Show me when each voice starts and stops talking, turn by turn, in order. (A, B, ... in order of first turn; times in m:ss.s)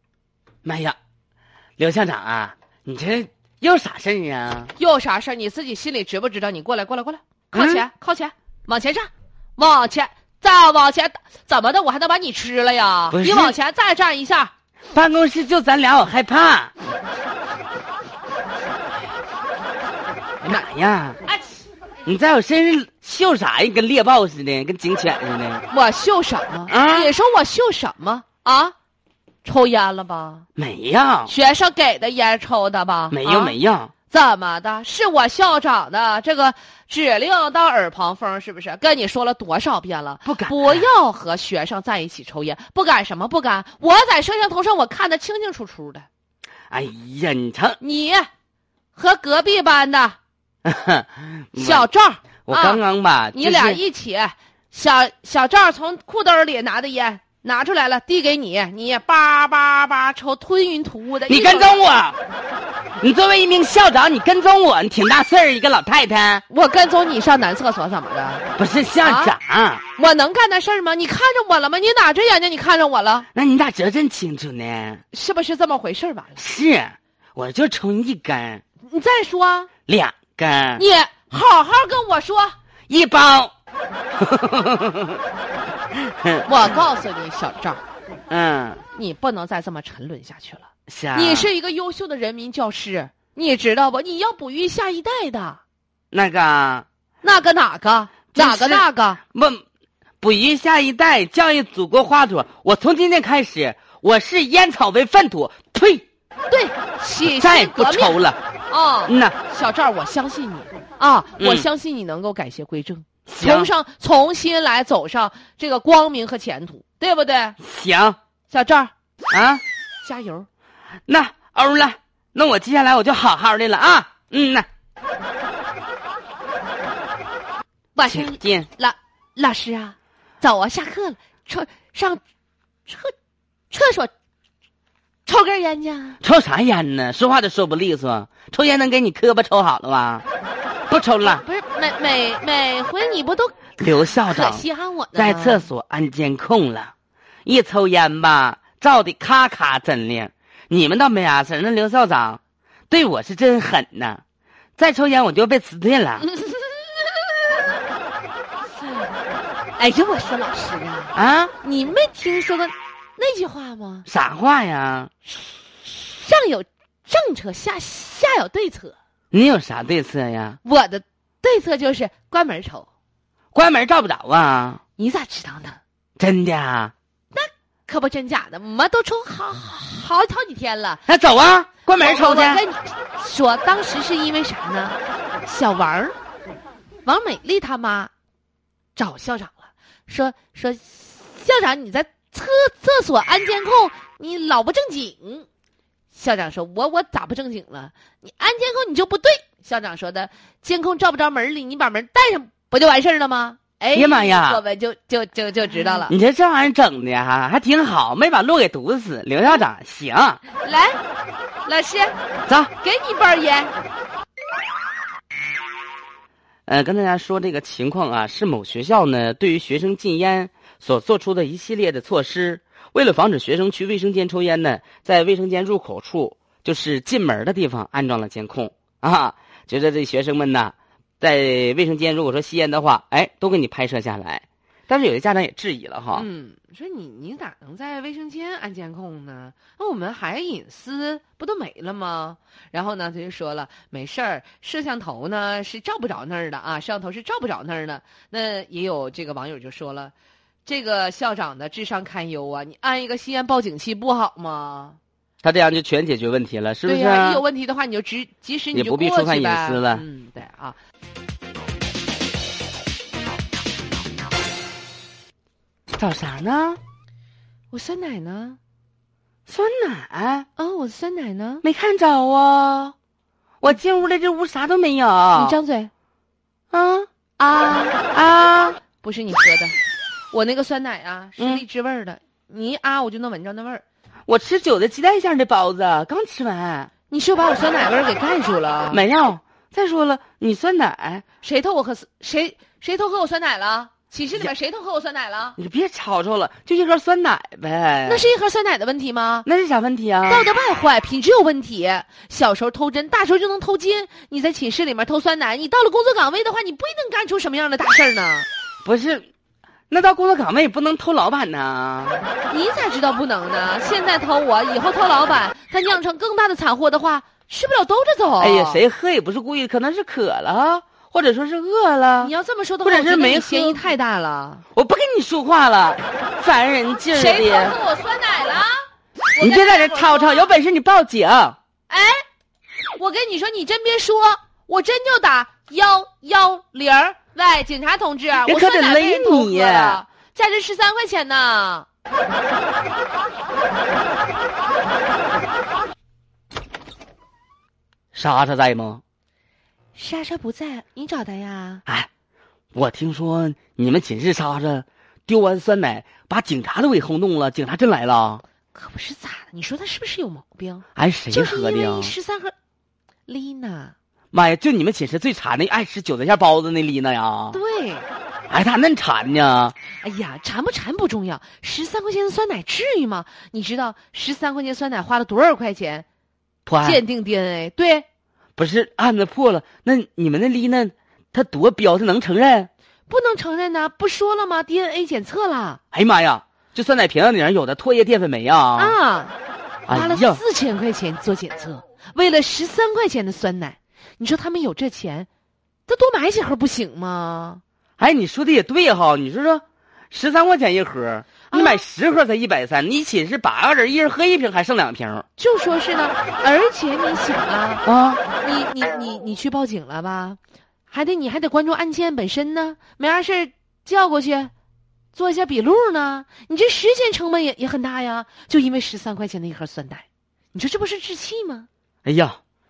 0:00.6-0:01.0 A
0:01.8-0:04.7 A
0:04.8-0:14.5 B
0:07.5-0:07.8 A
0:13.1-0:13.6 A
0:14.9-0:16.7 A
0:20.4-0:21.2 A
0:22.0-0:25.7 A
0:25.7-0:28.8 B
0:26.7-0:27.1 A
0:29.4-0:30.5 B
0:30.6-0:31.3 A
0:31.3-0:33.6 B
0:33.1-0:33.9 A
0:34.1-0:46.1 B
0:40.3-0:40.9 A
0:46.7-0:47.8 A
0:47.8-0:48.3 B
0:49.0-0:50.2 B
0:50.6-0:51.9 A
0:51.6-0:52.8 B
0:52.5-0:53.8 A
0:53.3-1:01.8 B
1:01.3-1:02.2 A
1:03.0-1:06.4 A
1:06.5-1:08.5 B
1:08.6-1:09.8 A
1:09.0-1:09.4 B
1:10.0-1:13.3 B
1:13.4-1:15.0 A
1:15.1-1:16.4 B
1:16.4-1:18.6 A
1:18.8-1:19.7 B
1:19.9-1:20.8 A
1:20.8-1:22.6 B
1:22.9-1:23.5 A
1:24.2-1:25.2 A
1:25.9-1:26.5 A
1:26.4-1:27.8 B
1:28.3-1:28.8 A
1:28.9-1:35.6 B
1:30.9-1:31.5 A
1:36.1-1:36.9 A
1:37.2-1:39.2 B
1:38.3-1:39.6 A
1:40.2-1:46.0 A
1:46.5-1:48.2 B
1:47.2-1:48.4 A
1:48.7-1:57.6 B
1:49.1-1:49.4 A
1:51.4-1:51.7 A
1:53.3-1:53.7 A
1:57.6-1:58.2 A
1:58.5-1:58.9 B
1:59.3-1:59.6 A
2:00.0-2:00.5 B
2:01.1-2:04.7 A
2:08.0-2:12.2 B
2:08.1-2:08.7 A
2:12.9-2:13.1 B
2:13.7-2:14.1 B
2:15.3-2:16.2 B
2:16.2-2:20.2 A
2:20.9-2:21.4 A
2:21.0-2:23.7 B
2:23.8-2:24.6 A
2:24.3-2:25.7 B
2:25.2-2:26.9 A
2:27.5-2:34.2 A
2:34.8-2:36.3 A
2:36.4-2:36.7 B
2:39.8-2:44.1 B
2:41.1-2:41.5 A
2:44.1-2:45.1 A
2:45.8-2:49.0 B
2:49.3-2:50.6 A
2:50.6-2:52.9 B
2:53.5-2:54.8 A
2:55.0-2:55.8 B
2:56.2-2:56.9 A
2:57.3-3:01.0 B
3:01.1-3:02.6 A
3:02.0-3:06.2 B
3:07.0-3:08.1 B
3:09.0-3:15.5 B
3:16.1-3:26.1 B
3:23.9-3:24.6 A
3:26.1-3:30.4 A
3:30.6-3:31.0 B
3:31.6-3:32.2 B
3:32.5-3:32.7 A
3:32.8-3:33.7 B
3:36.7-3:56.3 A
3:56.1-4:10.1 B
4:10.7-4:15.0 B
4:15.4-4:17.4 A
4:16.9-4:20.8 B
4:18.7-4:20.0 A
4:25.9-4:26.8 A
4:27.7-4:28.6 B
4:29.5-4:30.5 A
4:30.6-4:31.6 B
4:31.6-4:32.9 A
4:33.6-4:35.6 A
4:35.4-4:35.9 B
4:36.7-4:37.1 A
4:37.4-4:38.0 B
4:38.1-4:38.8 A
4:39.0-4:39.8 B
4:40.3-4:43.8 B
4:41.4-4:41.6 A
4:44.3-4:46.9 A
4:47.1-4:49.0 B
4:48.9-4:51.2 A
4:51.4-4:55.6 B
4:55.6-4:58.3 A
4:58.0-4:59.5 B
4:59.4-5:00.5 A
5:00.3-5:08.5 B
5:08.8-5:09.3 A
5:09.9-5:12.2 A
5:12.5-5:18.8 B
5:18.4-5:22.3 A
5:22.2-5:24.6 B
5:22.8-5:23.8 A
5:24.8-5:27.8 A
5:27.1-5:30.5 B
5:29.4-5:31.6 A
5:31.9-5:32.2 B
5:33.0-5:41.9 B
5:38.4-5:40.0 A
5:48.1-5:49.0 A
5:50.0-5:51.8 B
5:52.7-5:58.4 A
5:58.7-6:02.5 B
6:01.0-6:02.1 A
6:03.3-6:04.0 B
6:04.3-6:07.6 A
6:07.5-6:08.1 B
6:08.5-6:09.8 A
6:10.0-6:16.0 B
6:16.7-6:17.0 A
6:16.8-6:18.0 B
6:18.6-6:22.7 A
6:23.1-6:25.8 B
6:25.9-6:29.0 A
6:28.8-6:29.4 B
6:29.9-6:30.4 A
6:29.9-6:35.3 B
6:35.9-6:37.6 B
6:38.0-6:45.2 A
6:41.5-6:41.8 B
6:45.4-6:47.8 B
6:47.8-6:48.2 A
6:48.4-6:54.5 B
6:55.1-7:01.7 B
7:02.0-7:02.4 A